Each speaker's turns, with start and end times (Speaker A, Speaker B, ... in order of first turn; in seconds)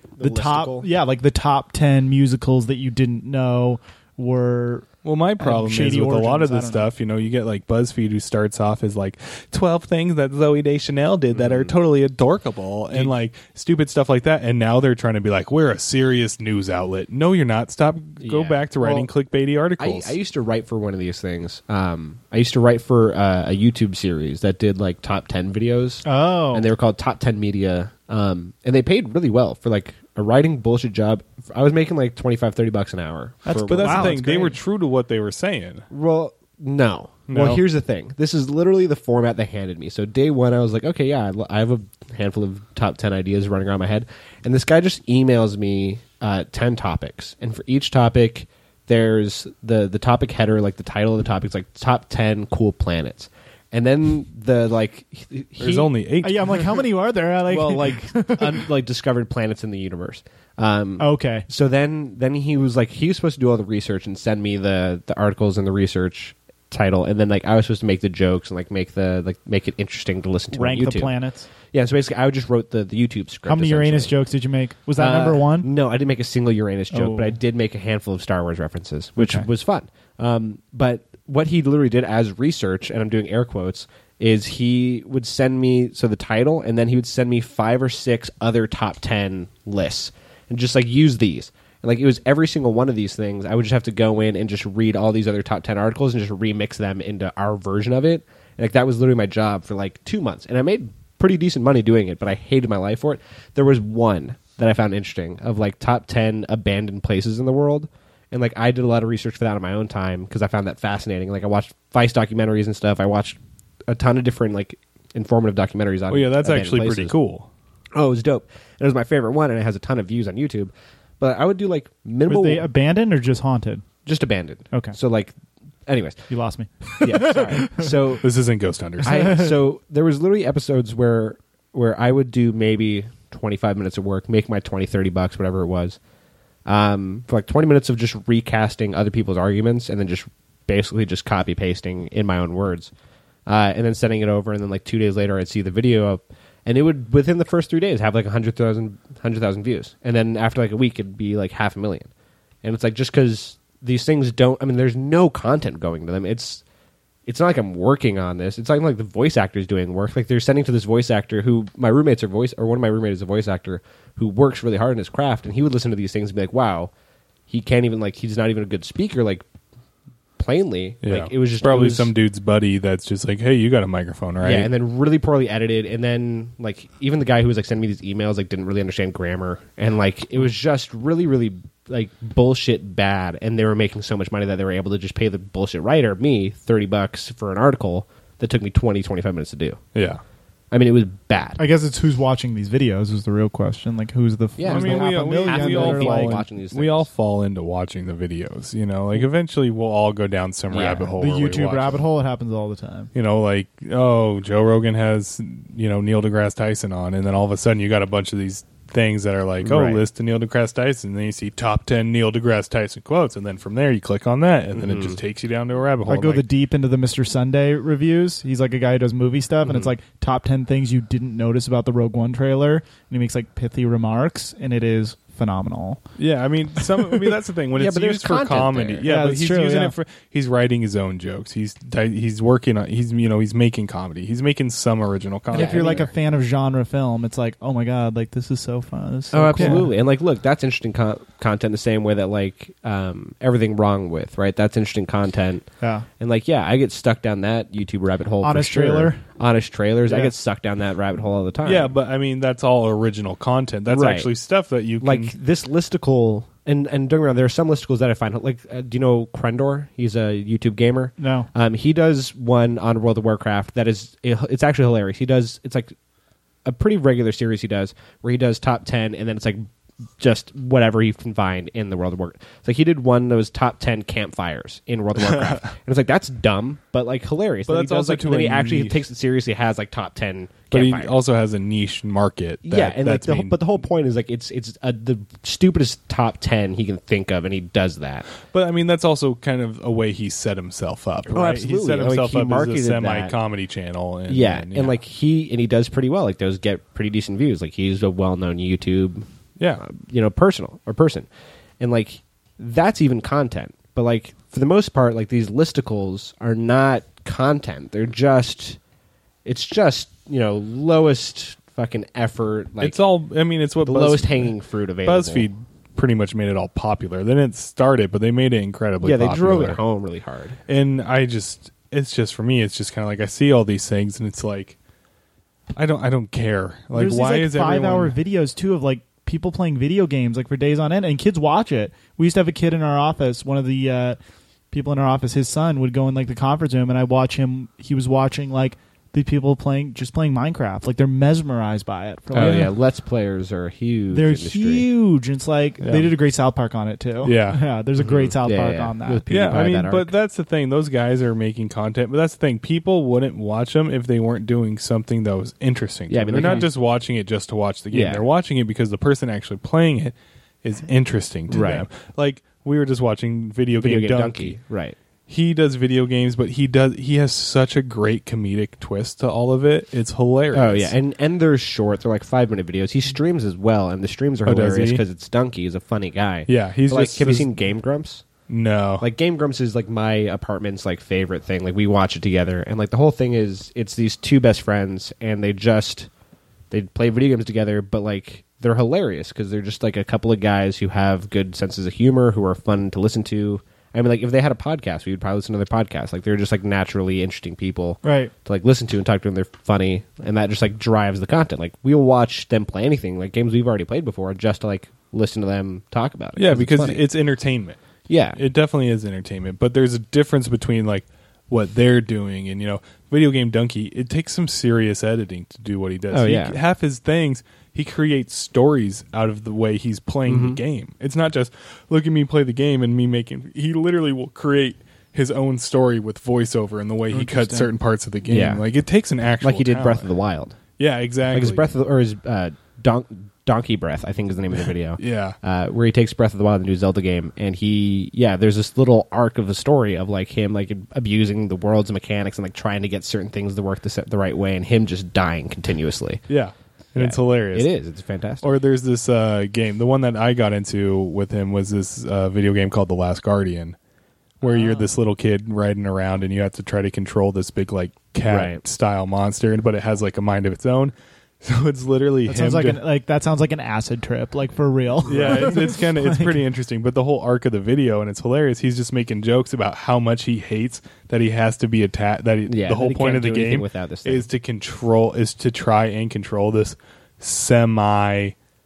Speaker A: 0.2-0.9, 11.3-11.7, 18.2-19.1, 19.8-34.2, 35.9-55.9, 57.5-71.1, 71.7-74.1, 75.0-117.1, 117.9-122.7, 124.0-125.3, 125.9-126.2, 127.0-128.2, 129.0-136.0, 136.7-142.9, 143.5-152.1, 152.6-156.6, 157.2-166.9, 167.5-169.4, 170.4-172.1, 174.4-189.8, 190.7-191.6, 194.6-197.1, 200.7-201.1, 209.6-210.0, 214.7-215.2, 227.7-229.1, 235.5-236.1, 239.3-245.6, 246.2-251.9, 253.9-254.3, 255.0-265.9, 266.6-269.7, 270.2-281.1, 282.6-288.2, 291.3-293.4, 294.3-299.2, 299.8-301.3, 301.8-308.8, 309.4-313.0, 313.8-315.5, 319.0-320.6, 342.3-344.9, 348.0-350.1, 356.1-356.7, 357.9-358.2, 361.5-361.9, 363.8-364.9, 370.5-378.2, 379.0-386.1, 386.7-407.0, 408.1-408.4, 416.1-416.6, 420.3-420.6, 428.3-428.6, 429.4-430.6, 431.3-446.2, 446.9-448.5, 458.2-458.6, 472.5-474.2
Speaker B: 0.2-6.9, 26.0-26.7, 33.5-34.5, 56.2-58.6, 61.0-61.5, 70.5-71.5, 73.5-75.7, 76.9-77.4, 79.2-79.4, 122.3-123.8, 124.7-125.0, 126.3-128.0, 129.0-129.5, 191.6-196.4, 201.2-203.1, 216.1-226.0, 229.0-229.9, 235.5-239.9, 245.8-246.1, 248.4-249.2, 261.2-261.5, 326.9-334.2, 334.7-342.7, 344.1-349.2, 356.4-356.6, 398.0-398.3, 427.1-427.7, 454.4-454.9, 462.3-466.4
Speaker C: 5.0-20.1, 33.6-35.9, 37.3-37.6, 55.6-56.6, 116.1-117.5, 128.2-129.3, 171.0-174.7, 189.9-190.2, 194.6-202.0, 203.1-216.4, 226.2-236.0, 239.6-239.8, 251.6-255.3, 275.1-275.7, 277.7-279.1, 280.7-283.6, 288.5-295.0, 312.8-314.5, 315.0-319.8, 320.7-324.8, 325.7-328.1, 342.3-342.7, 345.8-346.1, 347.2-347.6, 349.3-364.6, 365.3-370.9, 374.4-375.0, 376.5-377.5, 378.5-379.0, 406.4-407.8, 408.4-430.1, 430.8-431.6, 435.0-435.4, 446.3-447.7, 448.4-453.8, 454.4-462.8, 465.1-478.3